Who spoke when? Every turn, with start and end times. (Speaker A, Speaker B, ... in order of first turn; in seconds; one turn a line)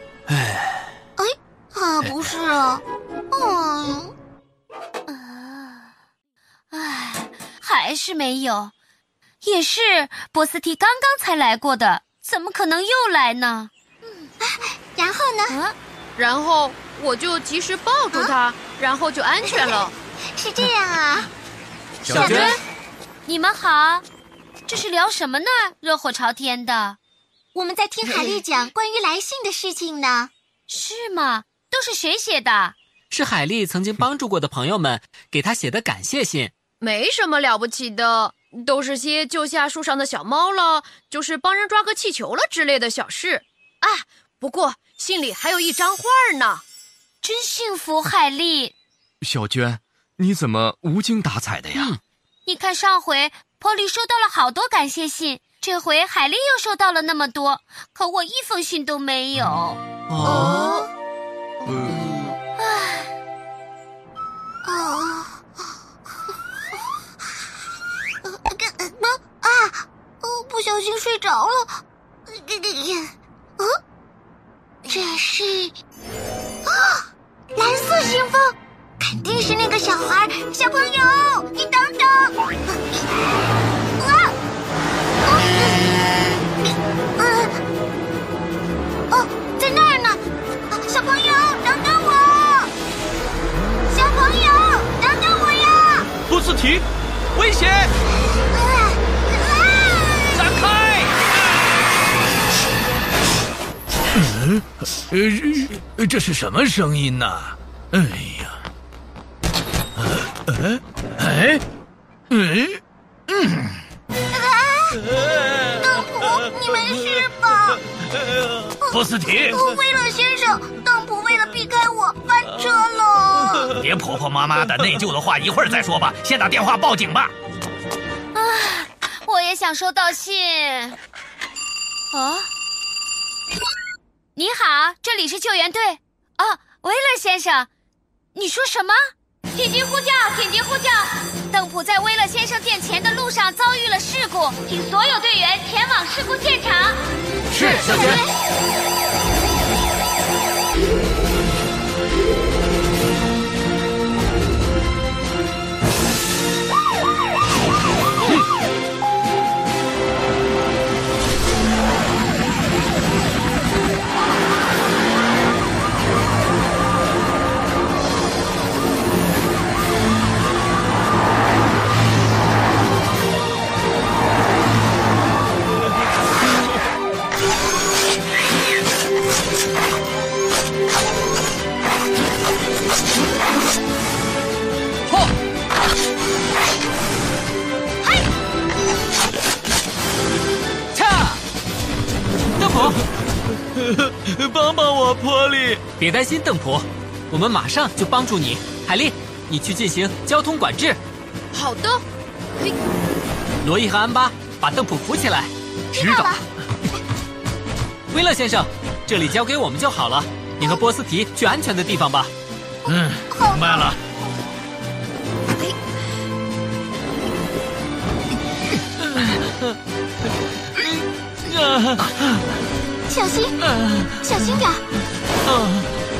Speaker A: 0.3-0.7
Speaker B: 1.2-4.1
Speaker C: 5.1-5.9
Speaker C: 6.7-8.7
Speaker C: 9.4-13.7
Speaker B: 14.4-15.6
Speaker C: 15.5-15.7
Speaker D: 16.2-19.9
Speaker B: 19.4-21.3
Speaker B: 22.0-22.5
Speaker E: 22.1-22.5
Speaker F: 22.1-22.4
Speaker C: 23.2-24.0
Speaker C: 24.7-27.0
Speaker B: 27.5-30.3
Speaker D: 28.1-28.4
Speaker C: 30.7-32.8
Speaker E: 33.1-36.5
Speaker D: 36.8-46.6
Speaker C: 47.2-48.7
Speaker F: 49.2-51.9
Speaker E: 51.7-52.0
Speaker C: 52.5-59.8
Speaker E: 60.1-60.8
Speaker B: 60.2-60.9
Speaker C: 62.6-63.1
Speaker B: 64.6-65.4
Speaker B: 68.2-73.8
Speaker B: 74.8-75.8
Speaker B: 76.6-83.0
Speaker B: 84.0-84.3
Speaker B: 85.2-86.0
Speaker B: 86.6-87.6
Speaker B: 89.1-92.7
Speaker B: 93.9-96.1
Speaker A: 96.3-97.9
Speaker B: 98.5-100.5
Speaker A: 100.3-101.2
Speaker A: 104.1-108.6
Speaker A: 110.0-111.6
Speaker A: 112.3-113.7
Speaker B: 114.3-117.8
Speaker B: 118.8-123.7
Speaker A: 118.9-119.6
Speaker A: 123.8-127.3
Speaker C: 128.3-131.0
Speaker C: 132.1-132.5
Speaker C: 134.3-137.7
Speaker C: 138.3-139.0
Speaker C: 139.5-147.0
Speaker E: 147.5-148.2
Speaker C: 147.6-148.2
Speaker E: 190.9-191.4
Speaker E: 192.6-193.0
Speaker A: 193.9-195.8
Speaker E: 196.0-201.0
Speaker D: 201.5-202.0
Speaker E: 203.6-205.5
Speaker B: 205.9-206.4
Speaker F: 206.0-206.3
Speaker E: 208.1-212.3
Speaker B: 212.8-213.9
Speaker A: 212.9-213.9
Speaker A: 220.8-222.1
Speaker B: 223.1-223.6
Speaker B: 224.2-224.8
Speaker A: 225.5-225.8